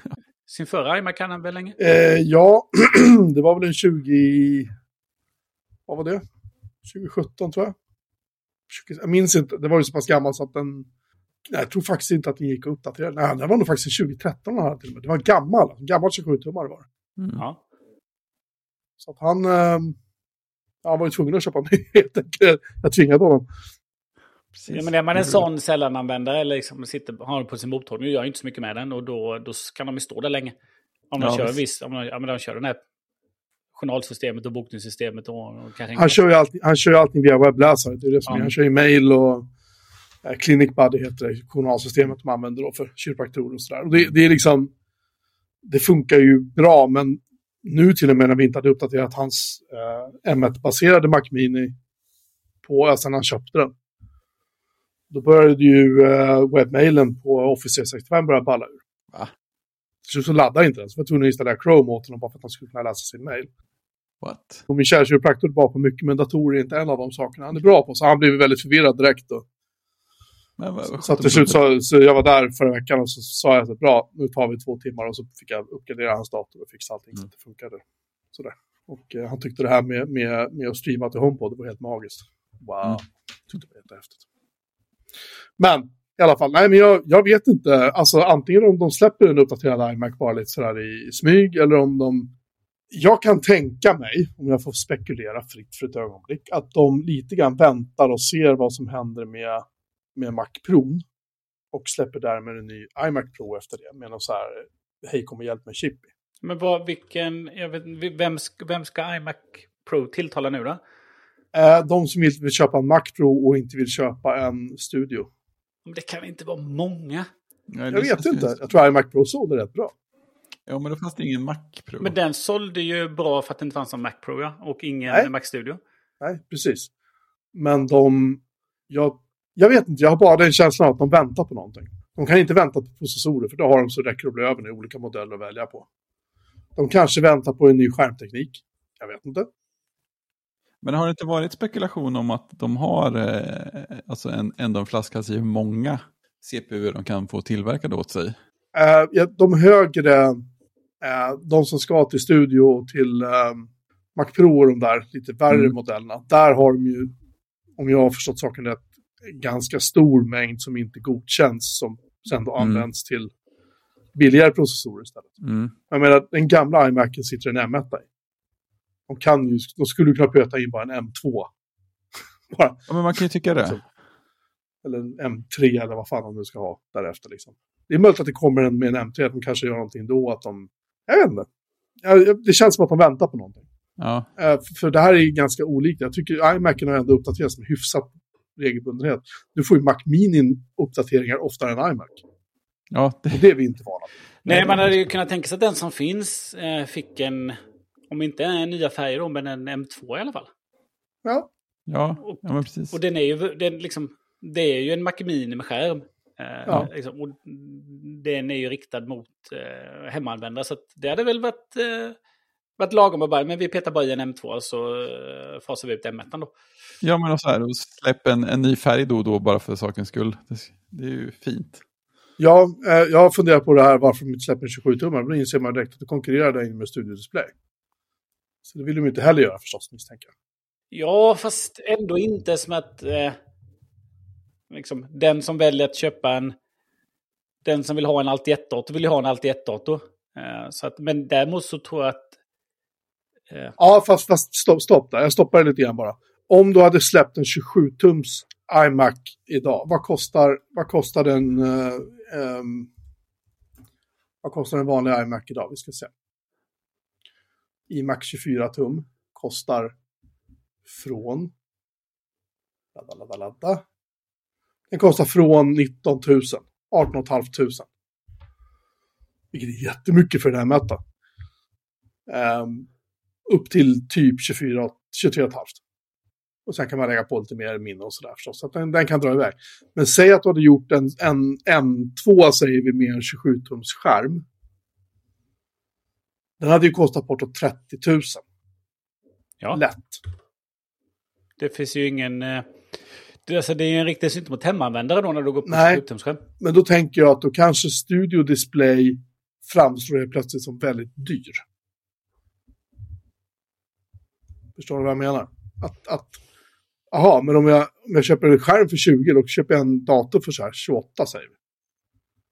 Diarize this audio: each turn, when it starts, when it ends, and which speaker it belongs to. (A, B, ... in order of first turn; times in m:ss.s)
0:00.5-0:01.8 A
0:01.8-0:04.7 B
0:05.9-0:06.2 B
0:06.8-0:07.7 B
0:08.7-0:10.9 B
0:11.5-0:16.8 B
0:17.2-0:17.4 C
0:19.0-0:20.0 B
0:20.8-0:23.4 B
0:24.6-0:25.4 C
0:24.7-0:30.5 A
0:31.1-0:32.8 A
0:31.2-0:31.6 C
0:33.7-0:36.2 A
0:35.9-0:39.5 B
0:40.2-0:44.7 B
0:45.6-0:51.7 B
0:52.6-0:53.7 B
0:55.1-0:58.8 B
1:00.0-1:03.5 B
1:04.2-1:04.6 C
1:04.7-1:09.4 B
1:10.6-1:11.6 C
1:10.9-1:24.2 B
1:25.6-1:32.3 B
1:32.9-1:39.6 B
1:40.2-1:41.0 B
1:41.7-1:46.0 B
1:46.4-1:50.8 A
1:51.5-1:55.3 B
1:55.8-1:57.3 A
1:57.7-1:58.6 C
1:57.9-1:59.9 B
2:00.7-2:02.1 C
2:02.0-2:05.8 A
2:06.2-2:06.9 B
2:07.5-2:15.8 B
2:16.8-2:19.5 B
2:20.8-2:28.4 C
2:28.7-2:30.4 B
2:31.0-2:37.1 B
2:37.8-2:43.3 B
2:42.6-2:42.8 C
2:44.2-2:45.3 B
2:45.4-2:45.7 C
2:45.9-2:48.1 B
2:49.1-2:51.5 B
2:52.5-2:52.9 B
2:52.9-2:53.8 C
2:54.8-3:01.5 B
3:02.0-3:03.6 B
3:04.0-3:04.3 C
3:04.4-3:12.2 B
3:12.9-3:13.4 C
3:13.3-3:14.1 B
3:14.4-3:17.6 A
3:14.5-3:14.8 C
3:18.1-3:20.5 A
3:21.9-3:23.0 C
3:22.2-3:32.2 A
3:32.8-3:36.5 A
3:37.0-3:41.8 C
3:42.4-3:47.5 B
3:48.6-3:50.3 B
3:50.9-3:53.4 A
3:54.7-3:56.5 A
3:57.6-4:02.3 A
4:03.8-4:12.9 B
4:14.4-4:16.1 B
4:17.9-4:19.9 B
4:20.8-4:21.5 B
4:22.9-4:23.8 B
4:24.9-4:27.9 B
4:29.5-4:31.0 B
4:32.3-4:32.9 B
4:33.5-4:35.8 B
4:36.6-4:44.4 B
4:46.6-4:48.4 B
4:49.7-4:50.2 B
4:51.6-4:52.7 A
4:53.4-4:56.4 A
4:55.6-4:56.0 B
4:56.6-5:01.6 B
5:04.8-5:06.4 B
5:07.1-5:11.5 B